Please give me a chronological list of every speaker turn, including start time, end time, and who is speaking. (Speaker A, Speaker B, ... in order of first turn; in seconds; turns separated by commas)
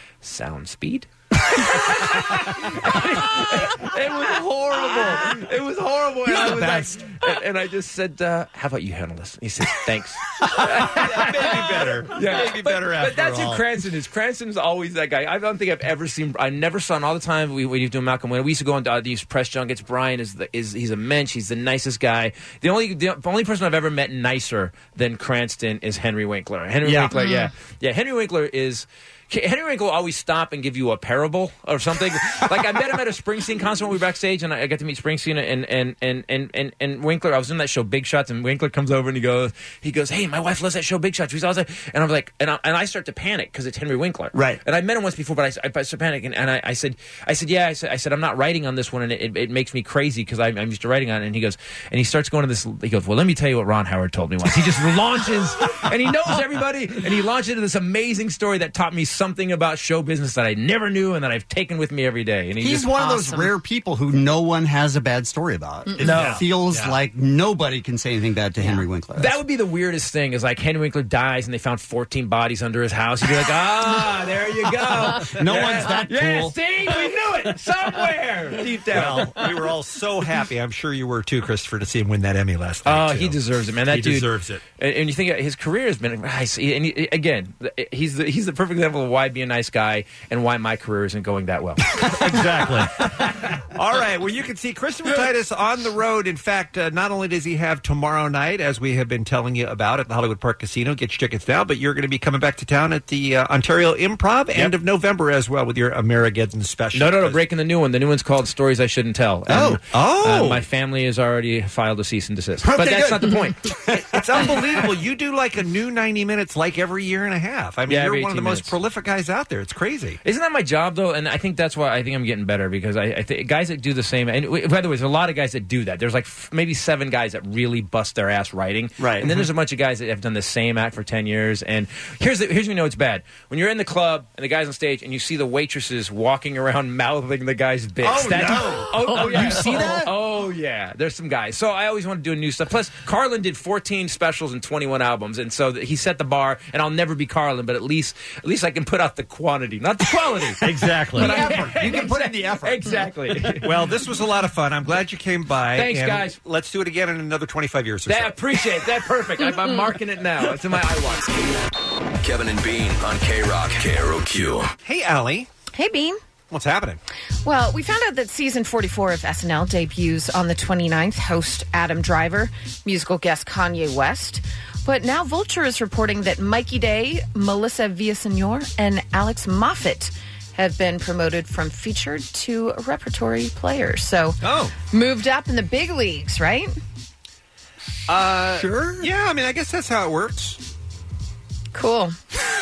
Speaker A: 0.2-62.9, Speaker B: 6.3-7.0, Speaker B: 10.6-13.6, Speaker C: 26.8-27.1, Speaker D: 27.1-27.5, Speaker C: 44.3-44.6, Speaker C: 62.6-69.4, Speaker D: 62.9-63.5, Speaker D: 65.8-66.1, Speaker B: 66.0-67.0, Speaker A: 66.0-66.4, Speaker A: 69.2-79.4, Speaker C: 75.1-76.6, Speaker B: 75.5-75.9, Speaker B: 78.9-84.6, Speaker A: 82.8-92.0, Speaker B: 92.0-107.4, Speaker A: 106.9-113.6, Speaker B: 109.5-110.6, Speaker C: 112.6-114.8, Speaker B: 114.0-120.2, Speaker A: 117.9-118.7, Speaker A: 120.2-153.8, Speaker C: 129.0-129.5, Speaker C: 138.0-140.1, Speaker C: 150.6-152.8, Speaker B: 150.9-151.3, Speaker B: 153.6-158.3, Speaker A: 155.7-156.4, Speaker A: 158.1-161.4, Speaker E: 162.2-164.7, Speaker B: 164.8-165.5, Speaker D: 165.7-166.2, Speaker B: 166.5-167.0, Speaker D: 167.4-184.4, Speaker B: 184.4-184.7, Speaker D: 184.9-186.7, Speaker B: 188.1-190.6, Speaker C: 188.5-189.1, Speaker D: 191.7-192.1